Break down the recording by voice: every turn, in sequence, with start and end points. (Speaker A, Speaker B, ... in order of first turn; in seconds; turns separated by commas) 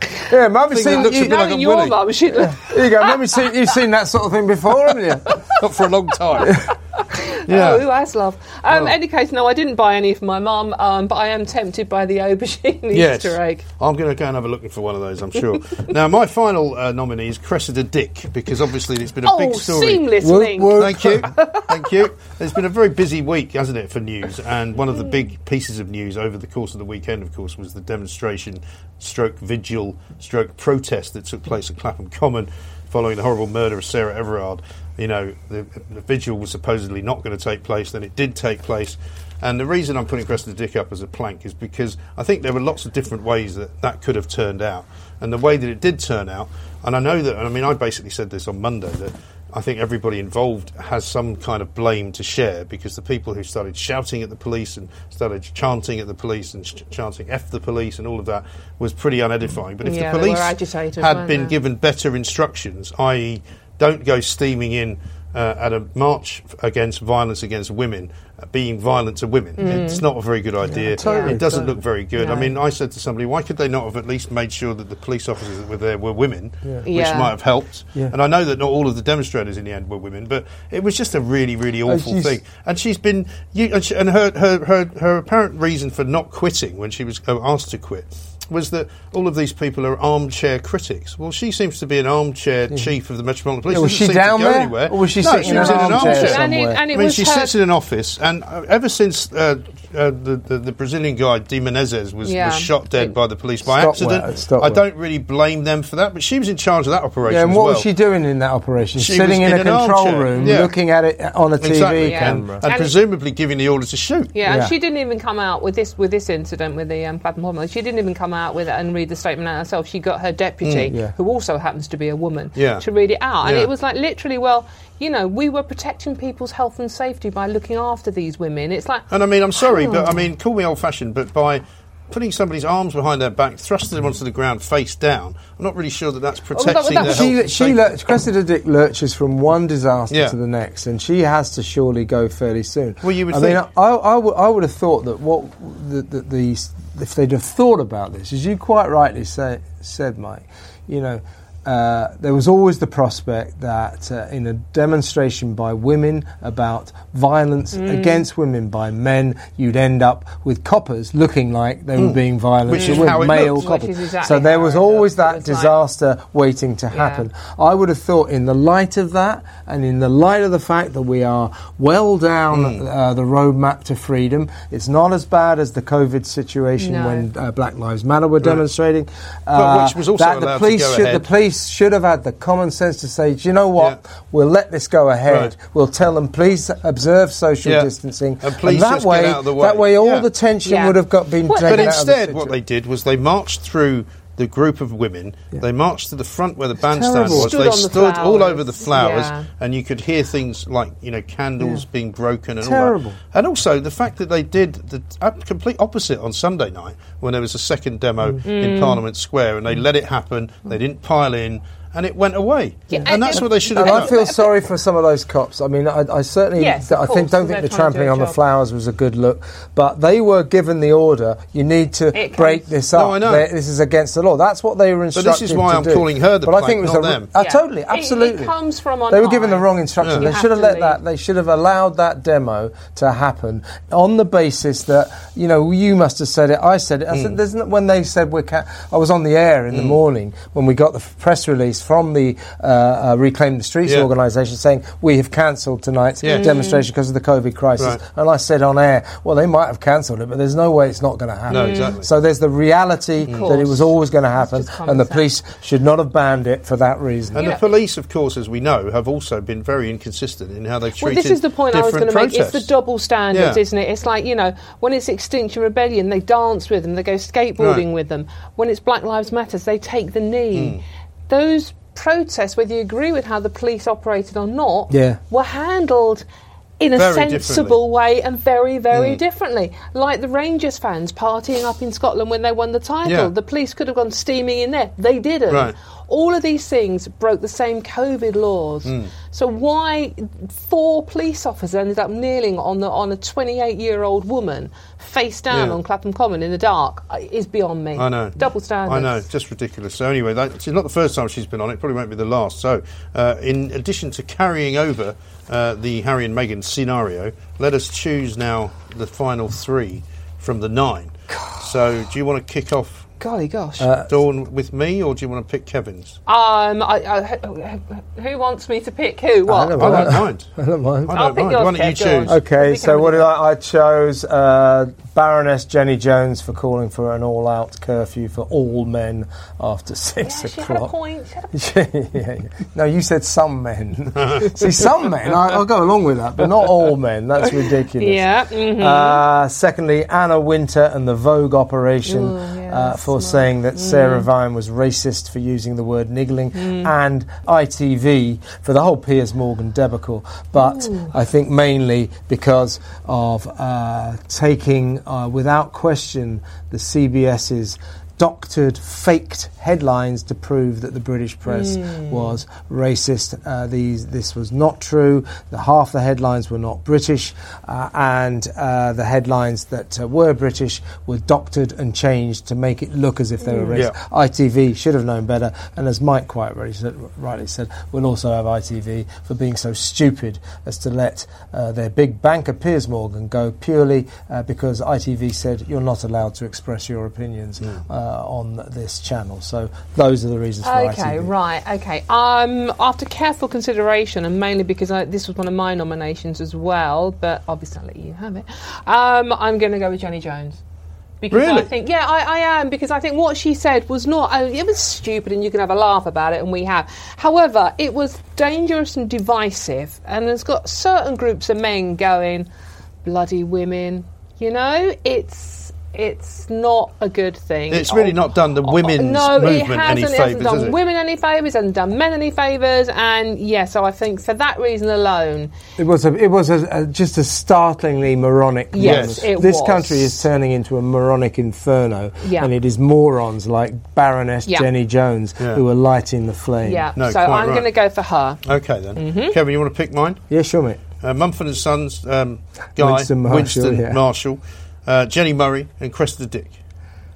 Speaker A: 0.3-1.4, Speaker B: 0.7-2.0, Speaker C: 0.8-3.5, Speaker A: 2.3-5.4, Speaker B: 5.5-6.7, Speaker C: 6.4-13.6, Speaker B: 7.5-7.9, Speaker B: 8.7-8.9, Speaker B: 12.9-20.1, Speaker C: 19.2-21.9, Speaker A: 20.2-21.3, Speaker B: 20.7-107.9, Speaker C: 59.8-61.5, Speaker C: 69.6-70.0, Speaker A: 70.7-71.7, Speaker C: 71.0-71.4, Speaker C: 72.2-72.5, Speaker C: 76.8-77.3, Speaker A: 81.8-82.4, Speaker A: 93.7-96.8, Speaker C: 95.4-97.5, Speaker C: 102.2-103.1, Speaker A: 103.6-104.8, Speaker A: 107.2-112.6, Speaker B: 109.0-110.7, Speaker B: 111.6-114.3, Speaker C: 112.0-112.9, Speaker C: 114.3-129.1, Speaker A: 114.4-114.7, Speaker B: 120.6-120.9, Speaker B: 122.5-122.8, Speaker B: 123.4-123.7, Speaker B: 129.1-138.0, Speaker C: 129.6-130.2, Speaker C: 136.5-137.3, Speaker A: 136.8-192.5, Speaker B: 140.1-140.3, Speaker B: 143.0-143.6, Speaker C: 157.7-158.2, Speaker B: 162.0-163.7, Speaker C: 162.7-165.8, Speaker C: 166.9-167.3, Speaker B: 172.5-172.8, Speaker C: 176.8-177.2, Speaker B: 179.5-181.3, Speaker B: 185.3-185.5, Speaker B: 188.4-190.3, Speaker C: 190.6-191.9, Speaker B: 191.6-214.2, Speaker A: 196.8-197.5, Speaker C: 197.2-199.5, Speaker A: 201.6-201.8, Speaker A: 202.6-203.2, Speaker C: 208.4-209.0, Speaker C: 212.9-214.5, Speaker A: 213.3-228.5, Speaker C: 216.6-218.4, Speaker C: 222.1-222.7, Speaker B: 222.9-223.5, Speaker B: 225.1-227.3, Speaker C: 227.3-231.0, Speaker A: 229.1-257.5, Speaker B: 230.0-230.3, Speaker B: 246.2-246.5, Speaker C: 246.3-246.8, Speaker B: 251.5-252.1, Speaker C: 251.5-252.0, Speaker C: 253.3-255.3, Speaker B: 257.3-262.7, Speaker C: 257.4-257.6, Speaker C: 261.0-276.2, Speaker B: 263.3-263.6, Speaker B: 267.6-267.8, Speaker B: 270.5-270.8, Speaker A: 274.9-275.2, Speaker C: 276.8-299.2, Speaker B: 276.9-277.8, Speaker B: 278.9-279.2, Speaker B: 283.0-283.3, Speaker B: 288.9-289.1, Speaker B: 295.5-295.8, Speaker B: 298.0-313.1, Speaker C: 311.3-311.7, Speaker C: 313.2-313.9, Speaker A: 313.8-314.1, Speaker B: 314.1-316.2, Speaker C: 316.3-320.2, Speaker A: 319.5-321.1, Speaker B: 319.8-320.5, Speaker B: 321.1-322.3, Speaker C: 321.1-323.3, Speaker A: 322.2-330.9, Speaker C: 330.2-331.5, Speaker A: 331.5-391.3, Speaker C: 337.9-339.2, Speaker C: 342.0-344.2, Speaker C: 346.5-346.9, Speaker C: 350.6-351.1, Speaker C: 361.5-362.3, Speaker C: 373.4-373.8, Speaker C: 390.6-400.6, Speaker C: 401.2-412.5, Speaker B: 401.3-401.7, Speaker C: 413.0-425.5, Speaker B: 417.7-420.8, Speaker A: 425.8-436.9, Speaker C: 428.7-430.1, Speaker B: 428.8-429.3, Speaker C: 432.2-432.5, Speaker C: 436.6-438.4, Speaker B: 437.0-437.7, Speaker B: 438.4-440.2, Speaker C: 438.9-439.4, Speaker A: 440.3-440.8, Speaker B: 441.0-446.6, Speaker A: 442.8-444.0